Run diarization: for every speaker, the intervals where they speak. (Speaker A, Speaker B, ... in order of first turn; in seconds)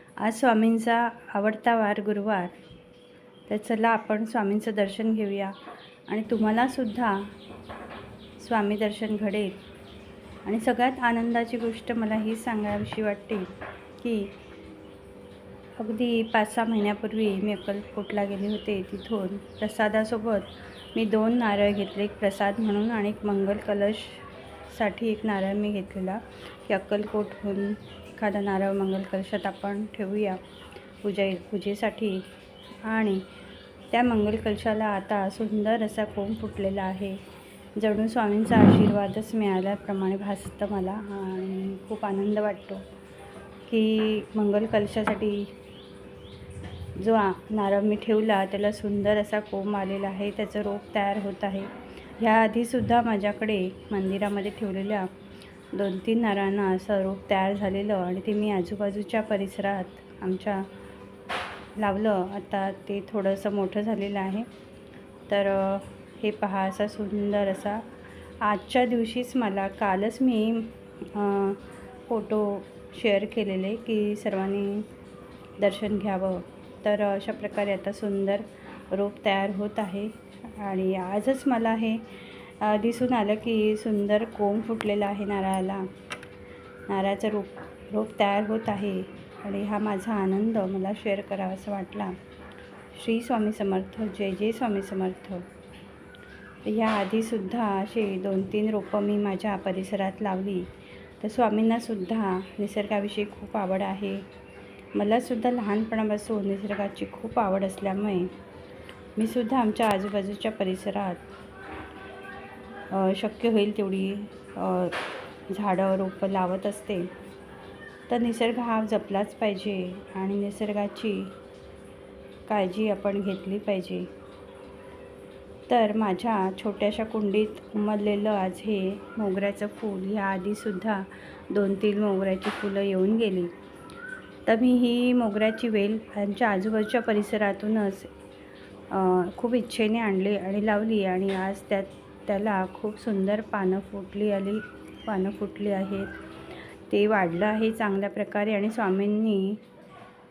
Speaker A: 0.2-2.5, 3.5-7.3, 8.4-9.6, 10.4-14.3, 15.8-30.4, 31.0-32.3, 32.9-33.3, 33.9-37.2, 37.8-42.8, 43.7-45.5, 47.0-55.1, 55.7-60.7, 61.8-64.5, 65.3-67.9, 68.4-74.9, 75.6-85.9, 86.9-92.2, 92.9-95.5, 96.7-104.3, 105.0-108.3, 109.2-111.3, 112.9-117.1, 118.1-121.3, 122.5-124.1, 125.7-133.5, 134.5-138.1, 138.9-146.1, 146.9-149.6